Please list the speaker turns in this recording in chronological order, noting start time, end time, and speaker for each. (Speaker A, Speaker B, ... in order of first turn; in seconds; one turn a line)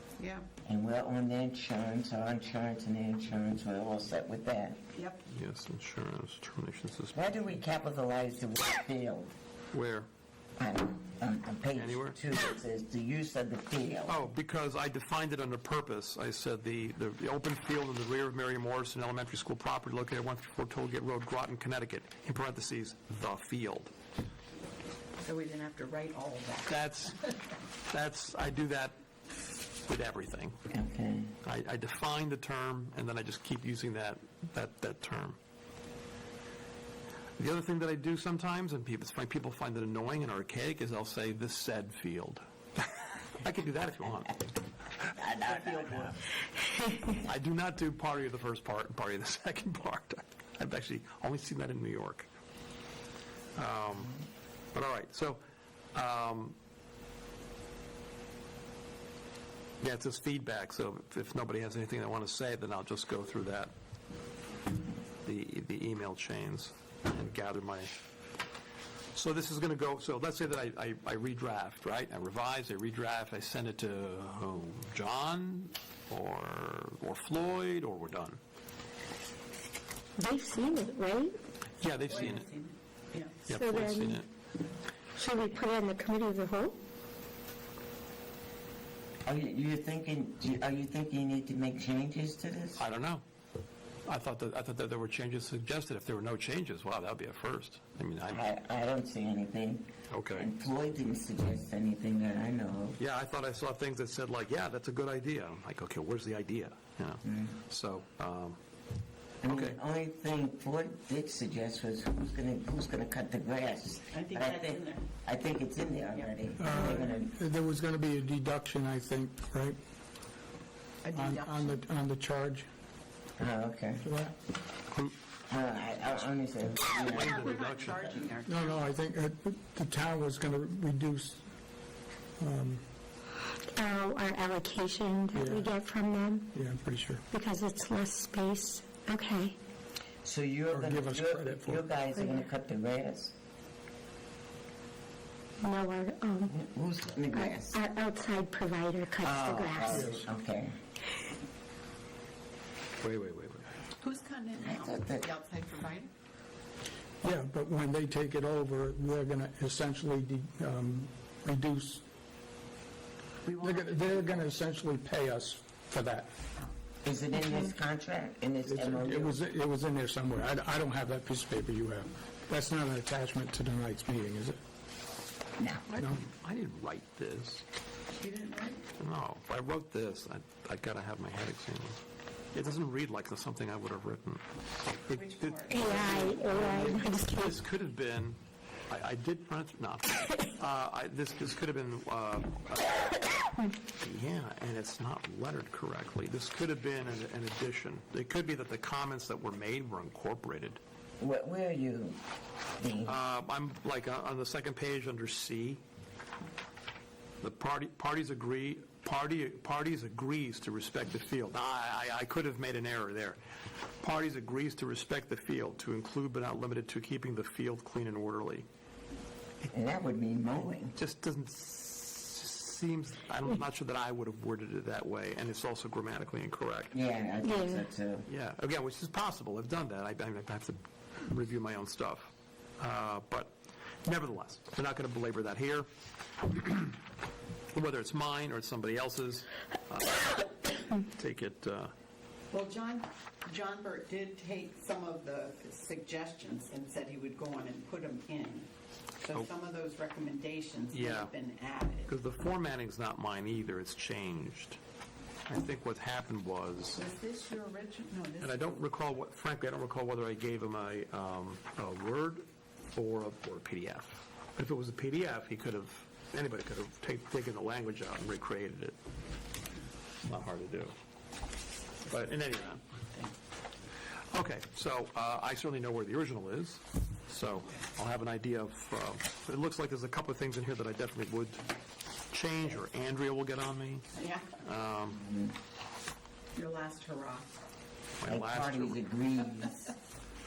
Speaker A: 0.2-0.5
Speaker B: 0.7-4.8
Speaker A: 4.9-5.2
Speaker C: 5.3-7.6
Speaker B: 7.2-9.3
Speaker C: 9.7-10.1
Speaker B: 10.6-14.2
Speaker C: 11.8-12.2
Speaker C: 14.1-23.9
Speaker A: 25.2-27.1
Speaker C: 26.7-27.2
Speaker C: 27.9-28.9
Speaker C: 29.9-30.6
Speaker B: 30.7-31.3
Speaker C: 31.4-35.4
Speaker C: 37.4-44.5
Speaker B: 45.1-46.3
Speaker A: 45.5-45.8
Speaker C: 47.1-52.3
Speaker C: 53.6-54.2
Speaker C: 54.7-55.4
Speaker C: 55.9-56.6
Speaker C: 59.8-63.7
Speaker C: 65.2-67.9
Speaker C: 69.1-78.4
Speaker D: 80.2-81.3
Speaker C: 81.8-82.5
Speaker A: 82.0-83.5
Speaker C: 83.5-84.3
Speaker D: 83.5-84.2
Speaker D: 85.2-86.8
Speaker B: 89.2-92.8
Speaker C: 92.8-93.2
Speaker C: 94.1-98.5
Speaker B: 98.3-103.0
Speaker C: 100.1-100.5
Speaker C: 103.0-108.6
Speaker B: 107.2-107.6
Speaker B: 109.4-117.3
Speaker C: 109.5-109.8
Speaker A: 114.1-115.0
Speaker A: 116.1-117.0
Speaker E: 116.6-119.8
Speaker A: 121.0-121.8
Speaker E: 121.1-122.7
Speaker B: 123.4-124.0
Speaker E: 124.0-124.3
Speaker B: 125.5-127.5
Speaker A: 127.0-128.9
Speaker C: 127.0-128.1
Speaker E: 128.5-131.4
Speaker E: 132.4-132.8
Speaker D: 133.8-136.5
Speaker E: 135.3-135.8
Speaker E: 136.5-137.2
Speaker D: 137.3-139.6
Speaker B: 140.2-143.3
Speaker E: 140.7-141.9
Speaker D: 142.2-142.4
Speaker D: 145.6-146.6
Speaker B: 146.5-147.8
Speaker D: 147.3-150.1
Speaker B: 149.2-150.8
Speaker E: 149.9-150.2
Speaker C: 153.0-153.7
Speaker A: 154.0-156.1
Speaker B: 154.6-155.3
Speaker E: 157.2-162.0
Speaker A: 163.4-164.5
Speaker E: 163.6-166.3
Speaker B: 167.0-169.4
Speaker E: 168.7-174.6
Speaker B: 175.6-175.8
Speaker C: 175.9-177.6
Speaker E: 175.9-176.2
Speaker A: 178.2-178.8
Speaker C: 179.0-182.0
Speaker C: 182.5-184.4
Speaker C: 185.1-188.4
Speaker A: 185.1-186.2
Speaker D: 185.7-187.6
Speaker C: 188.9-200.8
Speaker B: 201.2-202.2
Speaker B: 202.8-203.2
Speaker C: 203.1-205.8
Speaker C: 207.4-213.4
Speaker C: 214.0-218.7
Speaker B: 219.7-220.9
Speaker C: 220.9-227.0
Speaker B: 226.9-228.3
Speaker D: 227.4-227.8
Speaker C: 228.3-232.3
Speaker C: 232.8-233.5
Speaker C: 234.1-235.9
Speaker C: 236.5-237.0
Speaker C: 237.7-241.9
Speaker A: 242.5-252.1
Speaker C: 250.9-251.3
Speaker C: 252.1-254.8
Speaker C: 255.5-257.0
Speaker A: 256.9-258.8
Speaker C: 258.4-269.0
Speaker C: 270.2-270.9
Speaker C: 272.1-272.8
Speaker C: 274.3-281.6
Speaker C: 282.3-284.1
Speaker A: 284.1-284.5
Speaker C: 284.6-285.2
Speaker B: 285.1-285.6
Speaker A: 286.6-287.5
Speaker C: 288.2-289.0
Speaker B: 288.3-289.9